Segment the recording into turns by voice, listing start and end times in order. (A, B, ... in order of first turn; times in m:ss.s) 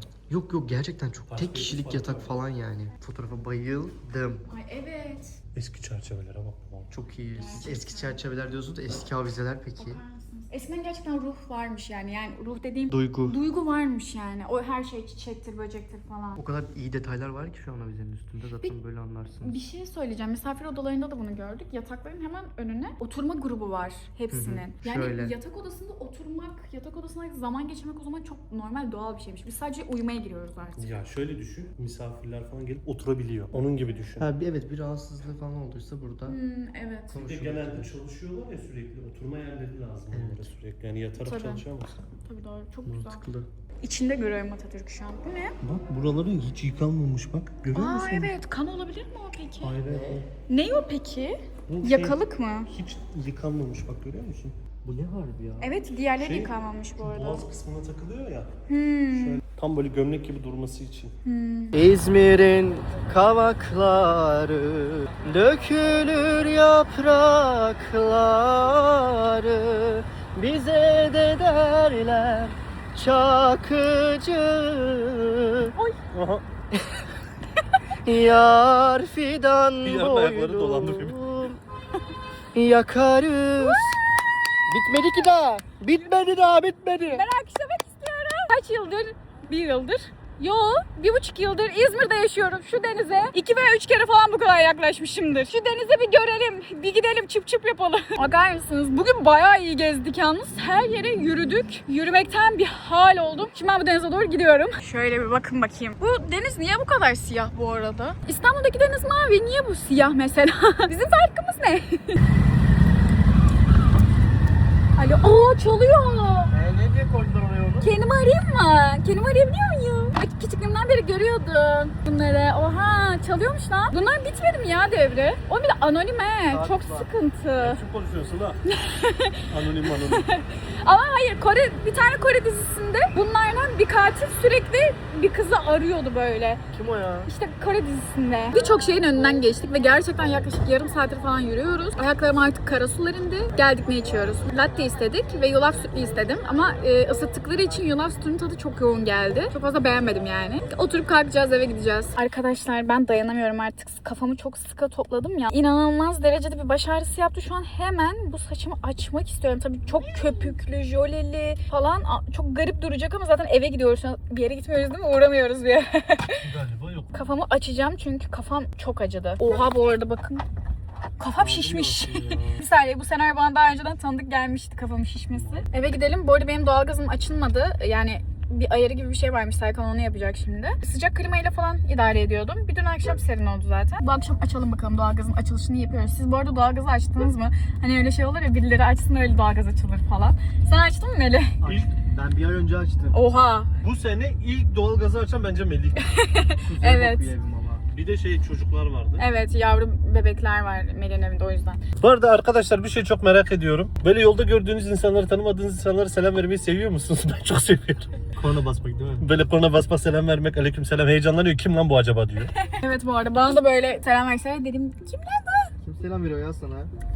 0:00.3-0:04.5 A
0:01.3-0:02.4 B
0:04.5-0:05.4 C
0:05.5-0:06.9 B
0:06.9-0:10.0 A
0:07.3-0:08.2 C
0:09.8-0:16.4 C
0:12.9-0:13.4 A
0:16.4-0:19.6 A
0:19.4-0:30.9 C
0:24.3-0:25.3 A
0:30.8-0:34.3 B
0:34.2-0:36.4 A
0:36.3-0:37.2 C
0:37.1-0:37.9 A
0:37.1-0:41.9 B
0:40.1-0:40.5 A
0:41.2-0:41.7 C
0:42.2-0:43.2 C
0:42.8-0:43.5 A
0:43.8-0:45.6 C
0:45.6-0:48.3 B
0:47.7-0:49.8 C
0:49.6-0:50.3 B
0:49.8-0:50.2 A
0:50.5-0:52.7 C
0:51.7-0:54.6 B
0:54.8-0:55.7 A
0:55.6-0:57.4 C
0:56.2-0:58.5 B
0:58.7-0:59.4 C
0:59.1-1:01.1 B
1:01.2-1:01.8 C
1:01.7-1:15.7 A
1:16.1-1:16.4 B
1:16.7-1:17.0 A
1:18.0-1:21.6 A
1:19.8-1:21.2 B
1:22.5-1:24.0 A
1:23.6-1:23.9 C
1:24.7-1:27.2 A
1:27.1-1:52.2 C
1:55.0-1:56.5 C
1:56.5-1:57.9 A
1:57.8-2:07.8 C
2:06.5-2:07.1 A
2:07.6-2:08.6 B
2:08.6-2:16.6 C
2:09.5-2:10.3 B
2:16.7-2:17.3 A
2:17.3-2:46.4 C
2:46.4-2:47.1 B
2:47.1-2:50.4 C
2:51.2-3:11.6 C
2:51.4-2:52.6 B
2:55.3-2:55.7 B
3:11.6-3:13.2 A
3:11.6-3:11.9 B
3:13.1-3:13.7 C
3:13.8-3:16.0 B
3:16.0-3:17.3 C
3:16.6-3:17.8 A
3:17.9-3:19.2 B
3:19.2-3:21.8 C
3:22.0-3:28.1 B
3:28.4-3:29.3 A
3:29.2-3:32.5 B
3:32.5-3:35.7 C
3:35.8-3:36.9 A